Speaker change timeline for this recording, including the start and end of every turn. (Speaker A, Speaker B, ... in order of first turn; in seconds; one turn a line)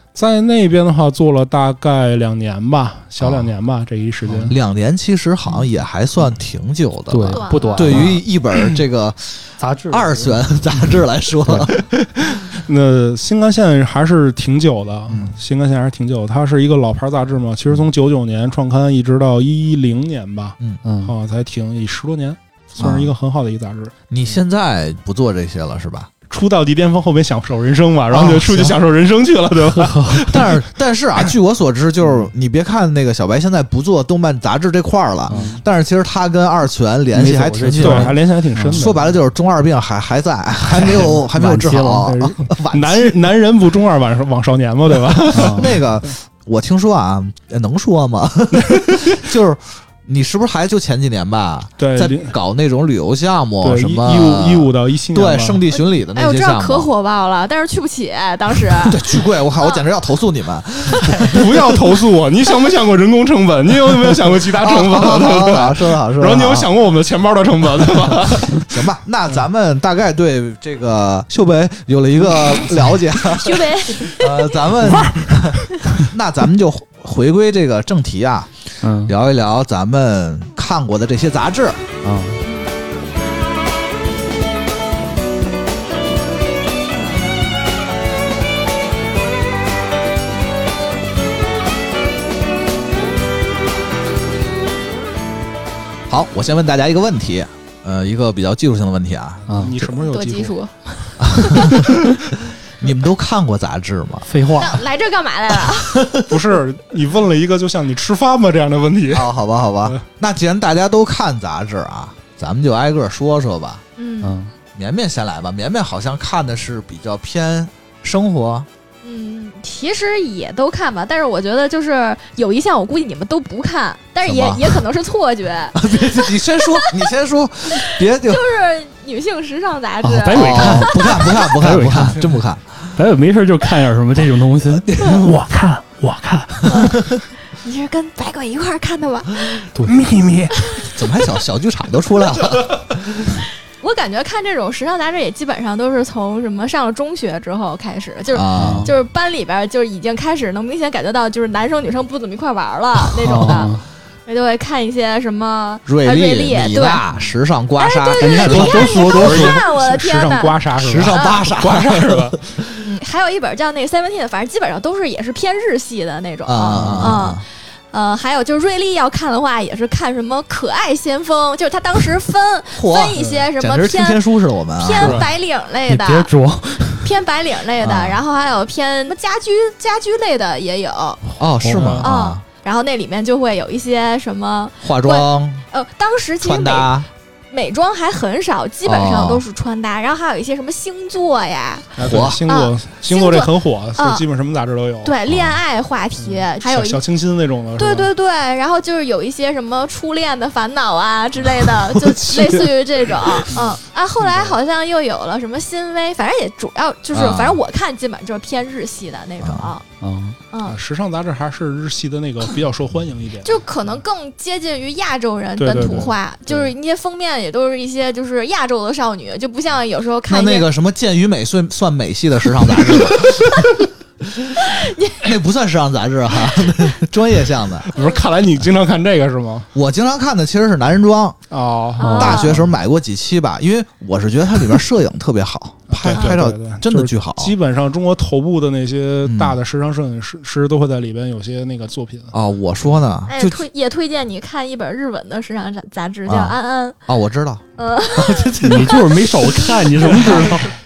Speaker A: 0.1-4.5
Speaker B: 3.2-3.5
Speaker C: 4.2-4.5
Speaker B: 4.5-12.2
Speaker C: 7.1-8.2
Speaker D: 7.3-8.0
Speaker C: 9.6-10.4
Speaker A: 12.3-23.9
Speaker C: 20.8-21.1
Speaker B: 22.8-23.1
Speaker B: 24.1-26.1
Speaker A: 26.3-30.6
Speaker B: 28.1-28.8
Speaker C: 29.9-30.1
Speaker B: 30.2-38.2
Speaker C: 35.3-35.6
Speaker C: 37.1-38.8
Speaker A: 37.8-39.2
Speaker B: 38.7-43.2
Speaker A: 40.7-41.2
Speaker C: 41.3-42.2
Speaker A: 42.1-45.9
Speaker C: 45.3-45.7
Speaker B: 45.3-56.9
Speaker A: 48.5-49.2
Speaker A: 51.8-52.3
Speaker A: 53.6-55.6
Speaker D: 56.1-59.0
Speaker B: 58.8-61.7
Speaker D: 59.6-59.9
Speaker A: 61.1-68.8
Speaker B: 64.6-66.7
Speaker B: 67.7-78.5
Speaker D: 73.3-74.6
Speaker A: 75.0-75.2
Speaker C: 78.8-79.1
Speaker B: 79.0-81.9
Speaker C: 82.0-82.4
Speaker B: 96.1-99.5
Speaker A: 99.5-100.5
Speaker D: 100.0-100.7
Speaker B: 101.2-102.2
Speaker D: 101.4-101.8
Speaker B: 102.8-104.3
Speaker C: 104.3-104.8
Speaker D: 104.6-106.0
Speaker B: 105.6-106.4
Speaker A: 106.3-109.3
Speaker B: 109.1-113.8
Speaker D: 114.0-114.3
Speaker C: 114.2-114.5
Speaker B: 114.8-118.7
Speaker D: 119.0-125.9
Speaker B: 124.2-124.8
Speaker B: 125.7-128.4
Speaker D: 126.6-127.1
Speaker D: 127.8-131.5
Speaker C: 130.0-132.3
Speaker B: 130.3-132.9
Speaker C: 132.9-135.3
Speaker A: 135.0-136.9
Speaker B: 136.7-137.2
Speaker D: 136.7-137.0
Speaker D: 137.6-139.7
Speaker A: 139.8-140.9
Speaker B: 140.9-143.4
Speaker D: 143.8-153.8
Speaker B: 148.3-148.9
Speaker C: 148.6-148.9
Speaker C: 153.2-153.8
Speaker D: 154.3-157.0
Speaker B: 155.9-159.1
Speaker D: 157.8-160.6
Speaker C: 158.2-159.6
Speaker A: 158.3-162.4
Speaker B: 160.8-162.8
Speaker D: 161.1-161.5
Speaker D: 162.8-176.3
Speaker B: 166.5-167.4
Speaker B: 172.7-175.2
Speaker A: 175.0-175.3
Speaker C: 175.9-177.1
Speaker D: 177.0-181.2
Speaker B: 177.8-178.2
Speaker B: 181.4-182.4
Speaker C: 181.6-182.1
Speaker A: 181.7-182.0
Speaker D: 182.0-186.9
Speaker B: 184.8-185.7
Speaker B: 186.4-187.1
Speaker D: 187.5-191.9
Speaker B: 188.8-189.4
Speaker A: 192.0-195.2
Speaker B: 192.0-192.4
Speaker D: 192.5-194.2
Speaker D: 195.0-197.0
Speaker B: 195.3-195.6
Speaker A: 196.2-198.1
Speaker D: 197.8-209.8
Speaker B: 202.2-202.7
Speaker A: 204.2-204.6
Speaker B: 207.1-207.6
Speaker B: 209.4-209.7
Speaker C: 210.0-210.4
Speaker D: 210.5-210.8
Speaker A: 210.7-213.6
Speaker D: 213.4-220.7
Speaker A: 215.6-216.7
Speaker B: 220.3-223.7
Speaker B: 224.2-227.9
Speaker D: 224.6-225.2
Speaker A: 227.9-229.7
Speaker B: 229.8-231.4
Speaker A: 231.5-232.5
Speaker D: 232.0-232.6
Speaker C: 232.0-232.4
Speaker B: 232.1-237.6
Speaker A: 235.9-242.3
Speaker B: 239.2-239.6
Speaker B: 242.3-243.7
Speaker D: 243.3-246.9
Speaker B: 246.3-246.6
Speaker B: 247.1-249.0
Speaker D: 247.8-249.0
Speaker C: 248.6-250.7
Speaker D: 250.0-250.5
Speaker A: 250.1-250.6